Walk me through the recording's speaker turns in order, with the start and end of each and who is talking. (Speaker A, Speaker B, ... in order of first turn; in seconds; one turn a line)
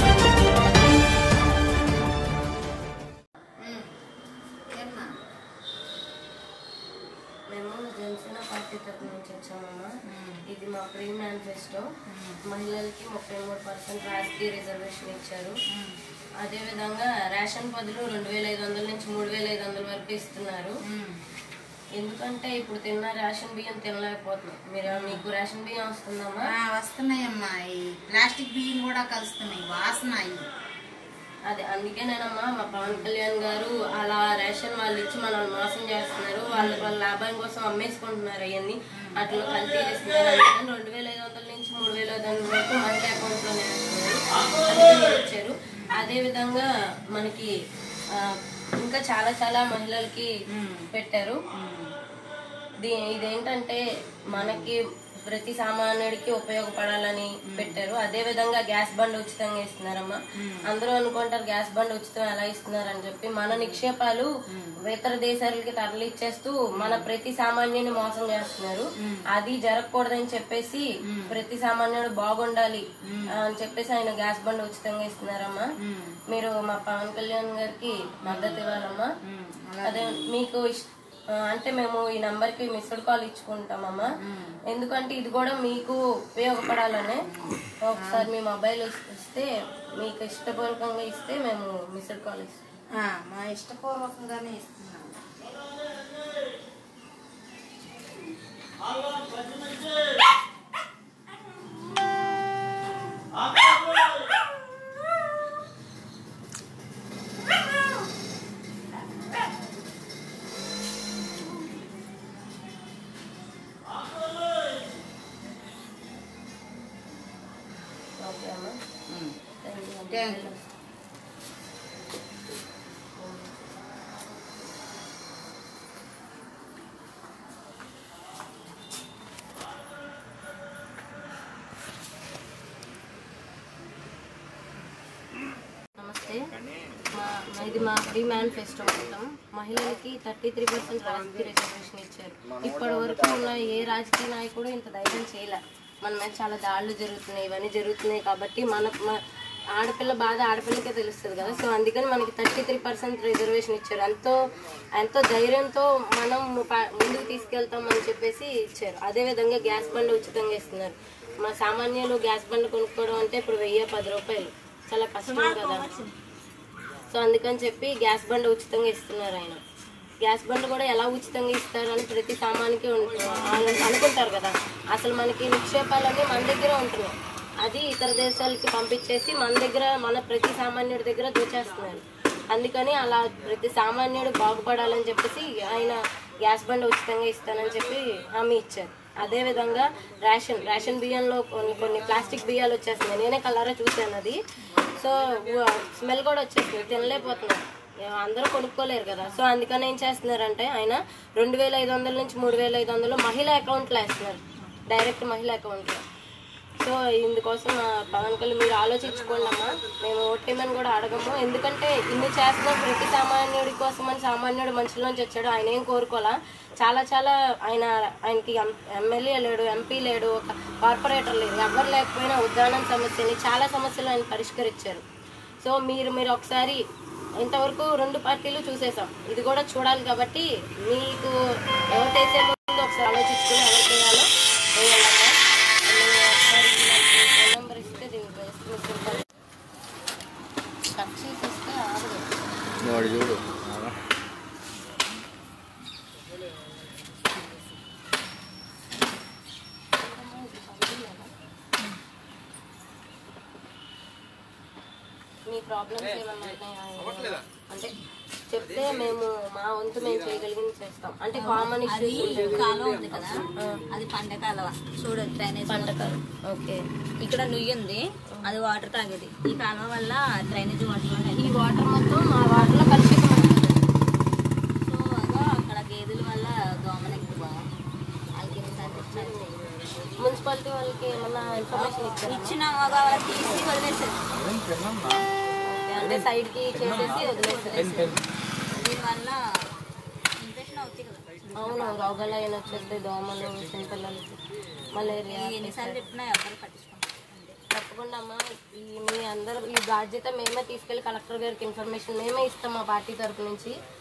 Speaker A: 3.6-4.0
Speaker A: 4.7-5.2
Speaker B: 7.5-9.9
Speaker A: 10.1-10.4
Speaker B: 10.5-11.9
Speaker A: 12.1-12.4
Speaker B: 12.5-15.6
Speaker A: 15.7-16.0
Speaker B: 16.4-20.8
Speaker A: 20.9-21.2
Speaker B: 22.0-26.5
Speaker A: 24.9-25.2
Speaker A: 26.5-30.5
Speaker B: 31.5-47.5
Speaker A: 32.8-33.1
Speaker A: 36.5-36.9
Speaker B: 48.2-50.3
Speaker A: 50.5-50.8
Speaker B: 50.9-51.4
Speaker A: 51.5-51.9
Speaker B: 52.8-64.3
Speaker A: 54.3-54.7
Speaker A: 57.5-57.8
Speaker A: 63.5-63.8
Speaker B: 64.9-75.7
Speaker A: 66.8-67.1
Speaker A: 71.1-71.3
Speaker A: 75.8-76.2
Speaker B: 76.3-79.1
Speaker A: 78.3-78.6
Speaker A: 79.3-80.3
Speaker B: 79.8-80.9
Speaker B: 81.5-84.1
Speaker A: 84.3-84.6
Speaker B: 84.7-87.3
Speaker A: 87.3-88.3
Speaker B: 87.8-89.5
Speaker B: 90.0-92.6
Speaker A: 92.9-95.2
Speaker B: 118.2-118.8
Speaker A: 119.1-119.4
Speaker B: 119.6-120.6
Speaker A: 120.1-120.5
Speaker B: 123.2-123.5
Speaker B: 136.0-136.5
Speaker B: 137.1-149.2
Speaker C: 142.7-143.4
Speaker B: 149.8-154.4
Speaker B: 155.0-165.9
Speaker D: 165.2-166.1
Speaker B: 167.1-169.6
Speaker B: 170.2-206.0
Speaker B: 206.8-225.0
Speaker B: 225.6-226.8
Speaker B: 227.4-231.3
Speaker B: 231.9-239.2
Speaker B: 240.9-242.2
Speaker C: 242.8-243.9
Speaker B: 250.0-251.3
Speaker B: 255.5-257.9
Speaker B: 258.5-262.6
Speaker D: 261.4-266.1
Speaker B: 263.6-263.8
Speaker B: 265.7-266.8
Speaker D: 267.2-271.6
Speaker B: 271.3-273.8
Speaker D: 273.2-273.7
Speaker D: 274.8-277.6
Speaker D: 278.4-280.1
Speaker B: 280.2-282.6
Speaker D: 281.7-284.2
Speaker C: 284.3-285.2
Speaker B: 285.7-288.0
Speaker C: 286.0-288.2
Speaker D: 286.8-288.2
Speaker D: 288.7-289.4
Speaker D: 290.4-292.2
Speaker B: 291.6-294.4
Speaker D: 292.7-293.1
Speaker B: 294.9-296.1
Speaker D: 295.0-297.6
Speaker B: 297.7-303.7